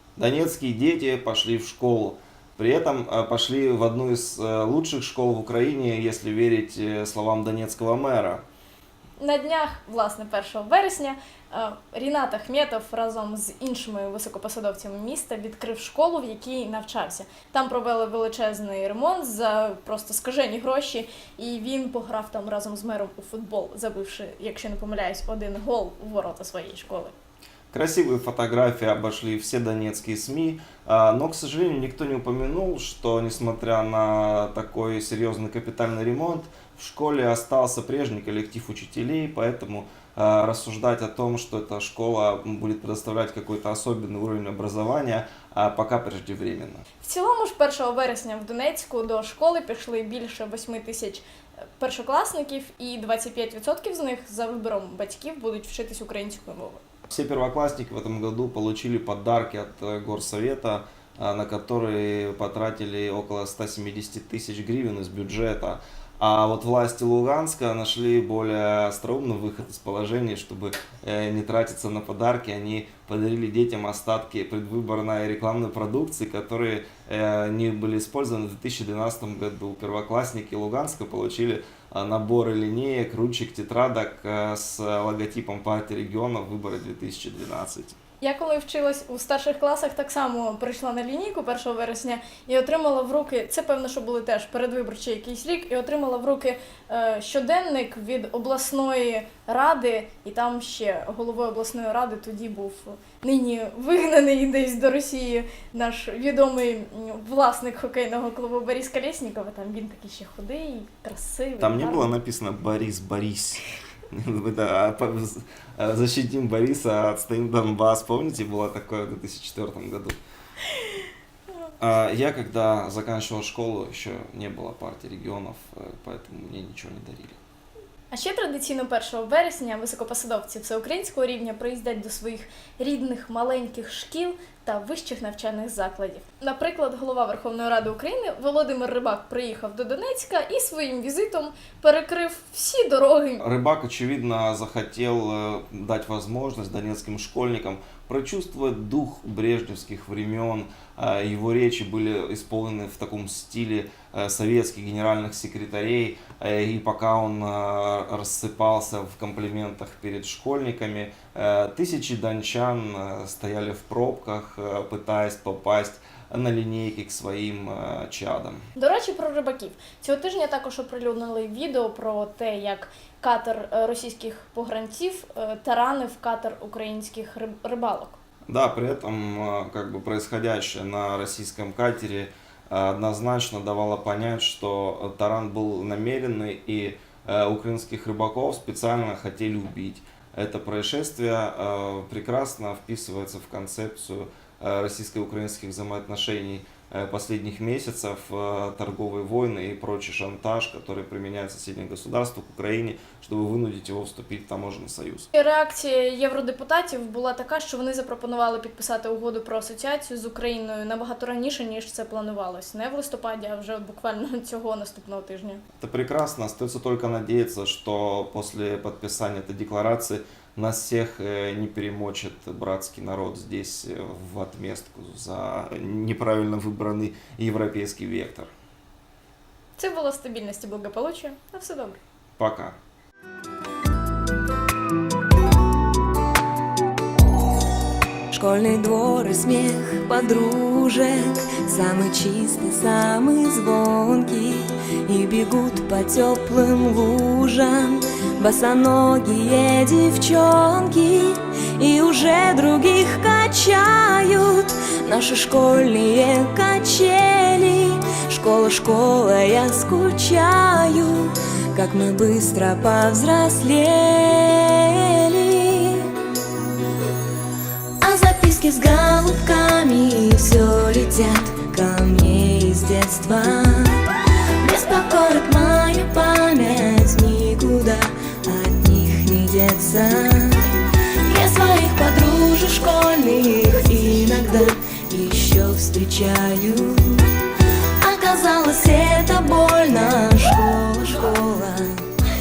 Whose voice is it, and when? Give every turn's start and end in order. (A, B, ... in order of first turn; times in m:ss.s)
0:00.2-0:08.4 A
0:09.2-0:27.1 B
0:27.7-0:46.8 A
0:47.0-0:51.2 B
0:51.8-0:56.8 B
0:57.1-1:28.0 A
1:28.2-1:52.1 B
1:51.6-2:00.2 A
2:01.8-2:07.4 A
2:08.1-2:23.4 B
2:23.4-2:48.6 A
2:48.8-2:58.2 B
2:58.5-3:25.3 A
3:25.3-3:35.6 B
3:35.8-3:48.5 A
3:49.8-3:52.0 B
3:52.4-3:52.8 A
3:58.3-4:26.1 C
4:28.0-4:34.1 C
4:34.6-4:40.7 C
4:41.2-4:47.3 C
4:48.0-4:52.1 C